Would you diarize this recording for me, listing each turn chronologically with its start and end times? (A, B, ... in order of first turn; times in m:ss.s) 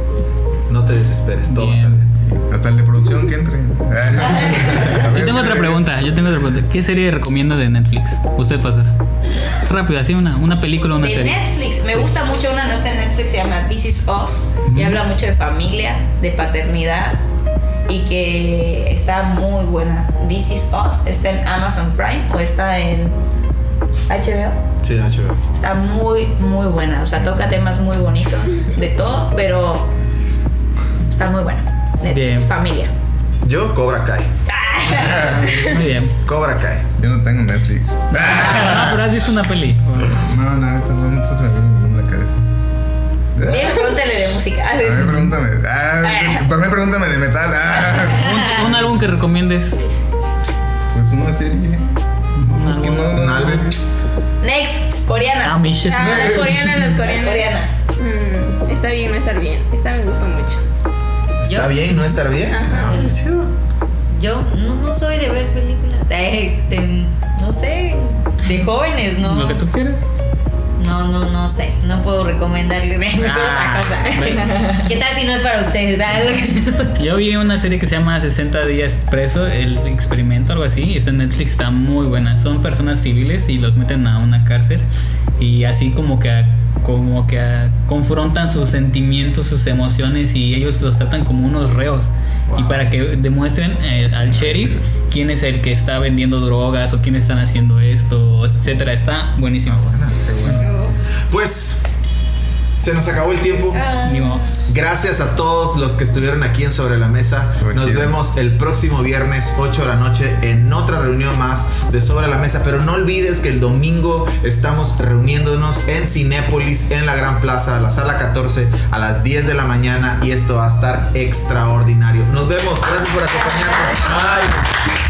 0:00.7-0:02.1 A
0:01.5-0:02.0 B
0:02.2-0:05.8 C
0:04.4-0:04.6 D
0:04.7-0:08.9 B
0:09.5-0:12.1 B
0:11.0-0:17.2 D
0:17.9-0:23.2 D
0:24.1-0:24.6 D
0:24.8-0:25.4 A
0:25.5-0:29.9 D
0:31.1-0:32.9 D
0:32.0-0:32.5 B
0:33.4-0:34.3 A
0:34.5-0:35.7 D
0:34.9-0:36.1 B
0:34.9-0:35.4 C
0:36.2-0:36.9 A
0:37.0-0:39.0 C
0:38.1-0:40.3 B
0:40.0-0:42.4 C
0:43.3-0:43.9 C
0:43.5-0:45.2 D
0:44.8-0:48.8 C
0:45.0-0:45.3 B
0:46.0-0:46.4 D
0:48.1-0:49.8 B
0:50.9-0:51.8 C
0:52.4-0:53.7 B
0:52.4-0:53.8 C
0:53.1-0:53.7 A
0:54.4-0:55.8 D
0:55.4-0:57.0 B
0:55.9-1:00.6 E
0:56.0-0:56.7 C
0:57.0-0:57.8 D
1:01.4-1:03.5 A
1:01.4-1:02.1 B
1:02.5-1:03.0 E
1:02.8-1:03.1 F
1:04.1-1:09.6 F
1:09.2-1:10.0 B
1:10.8-1:17.0 F
1:13.2-1:14.6 B
1:14.4-1:14.8 D
1:17.0-1:24.8 B
1:25.4-1:39.8 B
1:32.5-1:32.9 A
1:34.2-1:34.8 A
1:39.6-1:41.8 A
1:40.6-1:41.0 E
1:42.8-1:43.9 A
1:43.7-1:44.4 D
1:44.0-1:44.6 B
1:44.7-2:04.6 A
1:47.6-1:48.1 C